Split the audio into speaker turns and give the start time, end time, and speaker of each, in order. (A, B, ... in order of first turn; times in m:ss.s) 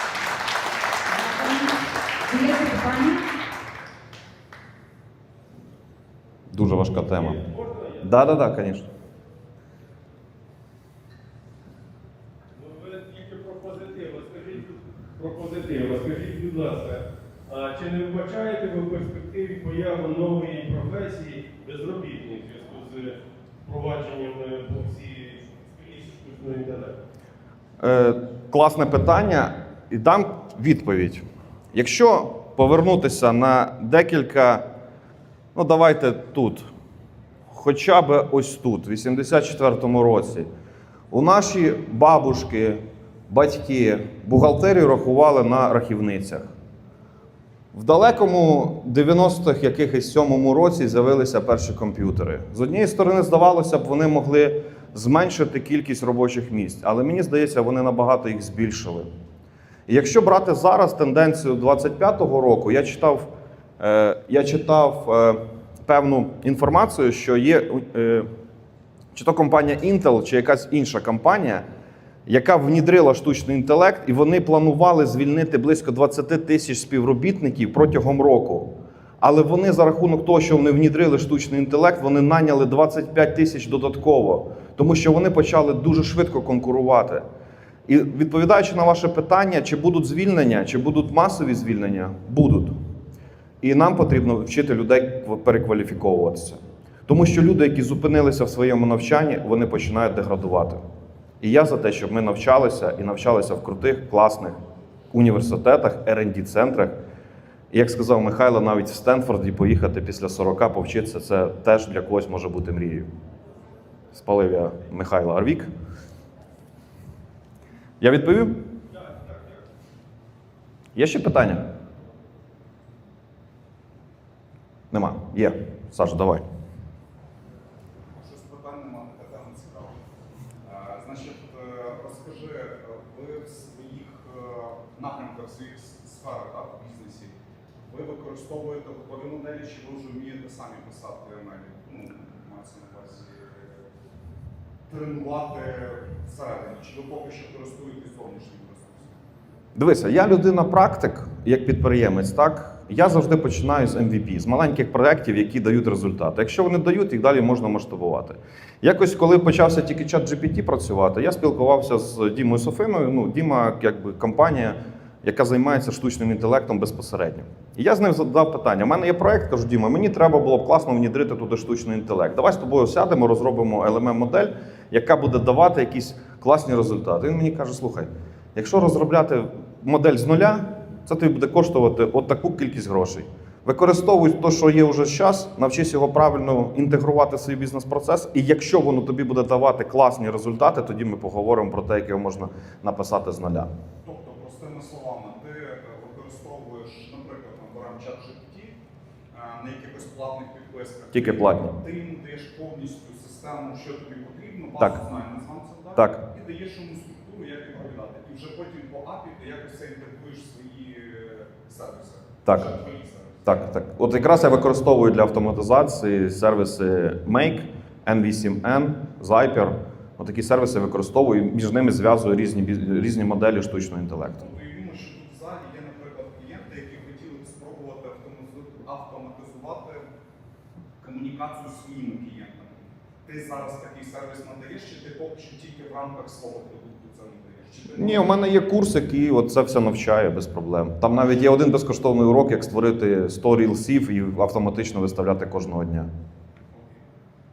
0:01.1-0:03.2 A
0:06.5-0:07.4 B
0:07.2-0:08.0 C
0:08.0-0:08.9 B
0:12.6-0:27.0 C
0:27.8-0:31.2 B
0:31.7-0:34.6 B
0:35.5-0:36.7 B
0:37.5-0:40.5 B
0:41.1-0:46.5 B
0:47.7-0:59.1 B
0:59.9-1:03.3 B
1:03.8-1:08.3 B
1:09.1-1:11.6 B
1:12.3-1:18.7 B
1:19.2-1:27.2 B
1:27.9-1:32.7 B
1:33.6-1:40.8 B
1:41.4-1:44.6 B
1:45.1-1:46.9 B
1:47.7-1:53.1 B
1:54.1-1:55.7 B
1:58.0-1:58.6 B
2:00.9-2:01.6 B
2:04.9-2:06.4 B
2:08.2-2:10.0 D
2:10.6-2:17.3 D
2:17.9-2:23.7 D
2:24.9-2:29.2 D
2:29.8-3:13.7 B
3:14.0-3:18.8 D
3:19.3-3:33.5 D
3:21.1-3:21.8 B
3:26.0-3:26.2 B
3:32.4-3:32.7 B
3:33.4-3:44.4 B
3:44.4-3:50.0 D
3:51.0-3:58.4 D
3:58.0-4:06.1 B